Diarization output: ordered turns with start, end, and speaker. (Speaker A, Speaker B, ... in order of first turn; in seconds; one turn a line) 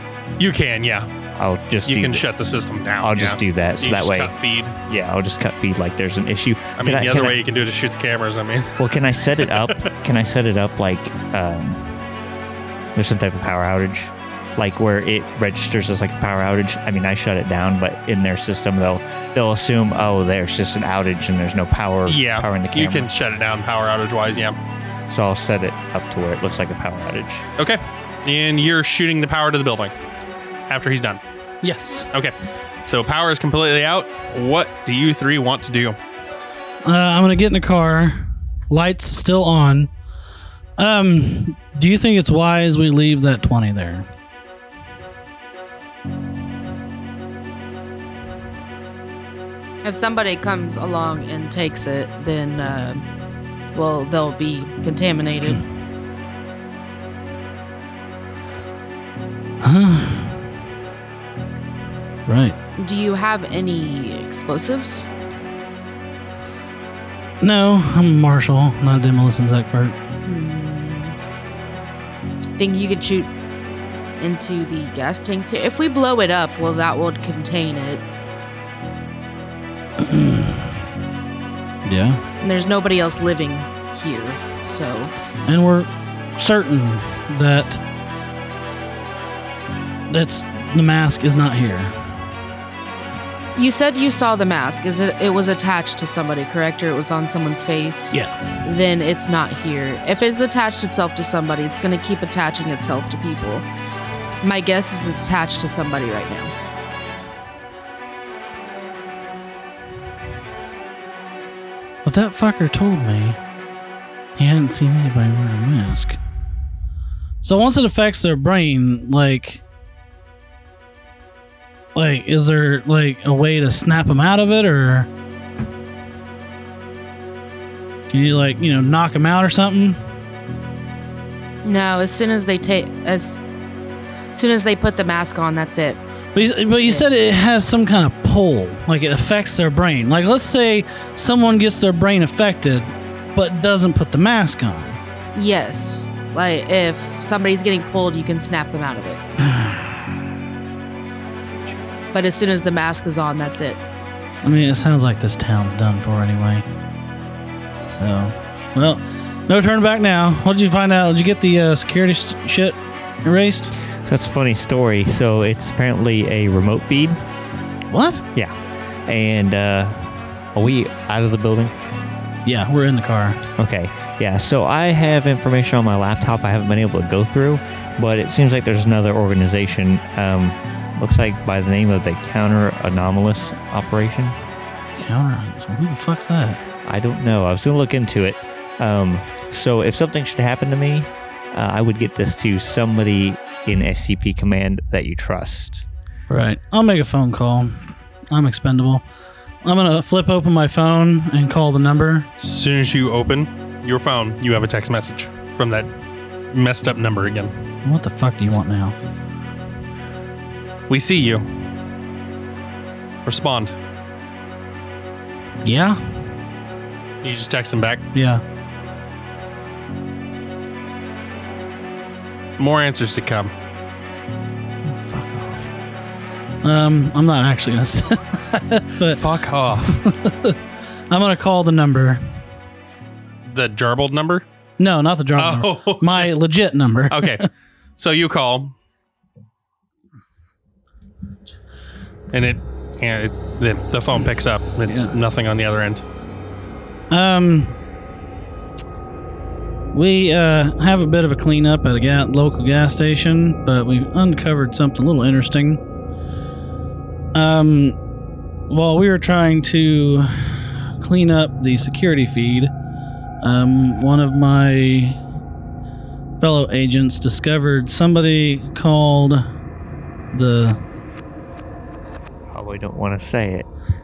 Speaker A: 0.4-1.1
Speaker B: 1.4-2.3
Speaker A: 1.9-4.8
Speaker B: 3.0-4.3
Speaker B: 4.9-7.4
Speaker A: 6.8-9.9
Speaker B: 8.8-11.8
Speaker B: 12.9-23.1
Speaker A: 22.1-24.6
Speaker B: 25.1-27.4
Speaker A: 27.6-29.9
Speaker A: 30.7-31.2
Speaker C: 31.6-32.1
Speaker A: 32.9-36.0
Speaker C: 36.8-39.9
Speaker C: 40.8-44.1
Speaker D: 49.8-53.0
Speaker D: 53.7-55.6
Speaker C: 59.6-60.4
Speaker C: 62.3-62.6
Speaker D: 62.8-65.1
Speaker C: 67.4-70.0
Speaker D: 70.2-71.2
Speaker D: 72.6-73.3
Speaker D: 74.2-78.0
Speaker C: 80.0-80.7
Speaker C: 81.8-82.2
Speaker D: 82.4-85.1
Speaker C: 85.4-87.8
Speaker C: 90.1-92.0
Speaker D: 93.5-103.6
Speaker D: 104.4-106.5
Speaker C: 112.0-113.4
Speaker C: 114.4-116.2
Speaker C: 117.4-119.6
Speaker C: 121.9-125.1
Speaker C: 128.1-130.0
Speaker D: 131.6-133.4
Speaker D: 134.3-137.1
Speaker C: 136.3-145.0
Speaker D: 145.3-149.2
Speaker C: 149.4-149.9
Speaker D: 152.1-153.8
Speaker C: 154.4-156.7
Speaker C: 157.9-163.7
Speaker B: 163.9-167.2
Speaker C: 167.9-168.2
Speaker B: 169.1-171.8
Speaker C: 172.4-173.4
Speaker B: 173.6-184.4
Speaker C: 185.0-186.6
Speaker B: 186.8-195.8
Speaker C: 196.3-199.0
Speaker C: 199.6-202.3
Speaker A: 202.4-205.9
Speaker A: 206.5-207.5
Speaker C: 207.8-208.9
Speaker A: 210.9-211.5
Speaker A: 213.2-213.8
Speaker C: 215.6-216.0
Speaker A: 217.2-218.0
Speaker C: 218.1-218.4
Speaker A: 222.6-223.5
Speaker C: 224.8-225.7
Speaker C: 226.6-229.2
Speaker A: 229.1-230.0
Speaker C: 229.8-230.6
Speaker C: 231.1-232.2
Speaker A: 233.4-234.4
Speaker C: 234.8-237.4
Speaker A: 235.4-236.3
Speaker A: 237.1-237.5
Speaker A: 238.0-238.7
Speaker A: 242.3-246.0
Speaker C: 247.1-247.8
Speaker C: 249.9-255.8
Speaker C: 257.3-257.9
Speaker C: 258.7-262.7
Speaker C: 263.4-265.2
Speaker C: 266.4-269.4
Speaker C: 270.3-270.8
Speaker B: 272.5-273.7